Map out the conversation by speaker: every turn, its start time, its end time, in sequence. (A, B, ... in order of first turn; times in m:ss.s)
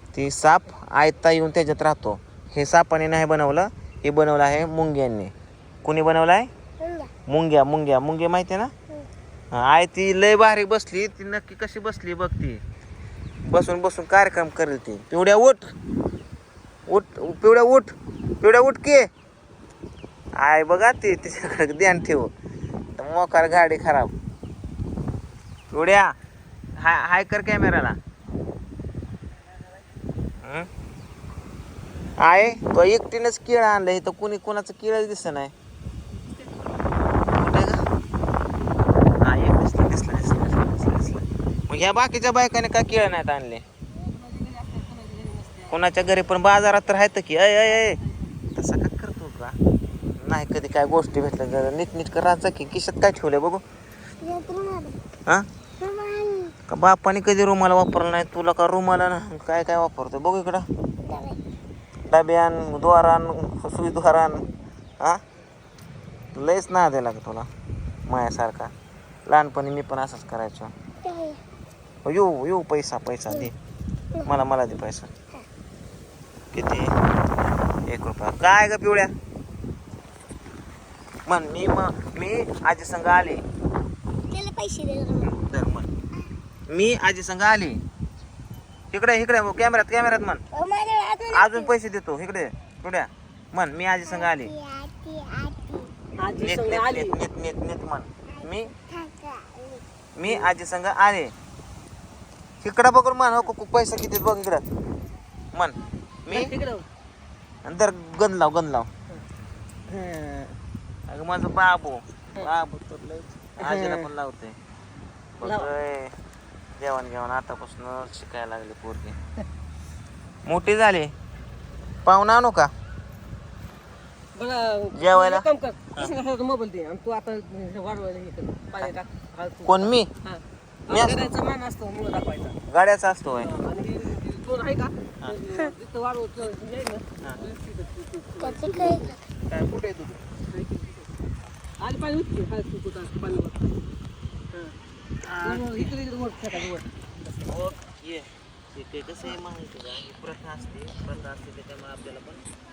0:00.1-0:05.3 A
0:05.8-0:06.5 A
0:06.8-0:07.1 B
0:07.3-0:08.7 A
0:09.5-0:12.6 A
0:13.5-0:15.7 A
0:16.9-0:19.1 A
0:20.4-0:22.3 A
0:23.0-0:24.1 A
0:25.7-0:26.2 A
0:26.8-0:28.0 A
0:30.4-0:30.7 A
0:32.2-0:35.5 A
0:36.2-0:36.6 C
0:37.4-0:37.8 A
0:39.2-0:43.6 A
0:44.0-0:45.8 C
0:45.7-0:48.0 A
0:47.6-0:48.4 C
0:48.6-0:49.6 A
0:50.2-0:53.6 A
0:54.2-0:55.0 B
0:55.8-0:56.6 B
0:56.7-1:00.7 A
1:01.0-1:01.4 B
1:02.1-1:04.4 A
1:06.4-1:07.5 A
1:08.1-1:08.7 A
1:09.3-1:10.7 A
1:11.0-1:11.4 B
1:12.0-1:13.6 A
1:14.3-1:15.1 A
1:16.5-1:16.9 A
1:17.9-1:19.1 A
1:21.3-1:23.4 A
1:24.3-1:25.3 B
1:25.2-1:25.9 A
1:26.7-1:27.8 A
1:28.9-1:30.4 A
1:30.5-1:31.7 B
1:31.3-1:34.5 A
1:34.1-1:35.9 B
1:36.2-1:37.2 C
1:36.4-1:38.7 A
1:38.3-1:39.8 B
1:40.2-1:41.3 A
1:42.6-1:44.6 A
1:45.6-1:46.5 A
1:46.3-1:46.9 C
1:47.6-1:48.9 A
1:49.9-1:50.6 A
1:51.1-1:54.6 A
1:53.6-1:54.1 C
1:55.4-1:56.1 A
1:55.4-1:55.7 C
1:56.8-1:59.2 A
2:00.5-2:01.1 A
2:02.1-2:02.7 A
2:04.4-2:12.6 C
2:05.0-2:05.4 A
2:09.6-2:10.1 A
2:10.9-2:11.3 A
2:12.7-2:13.5 A
2:13.4-2:19.2 C
2:18.4-2:19.2 B
2:19.5-2:20.2 A
2:20.5-2:21.1 C
2:21.8-2:23.7 C
2:25.2-2:25.9 A
2:25.4-2:27.7 C
2:27.5-2:32.4 A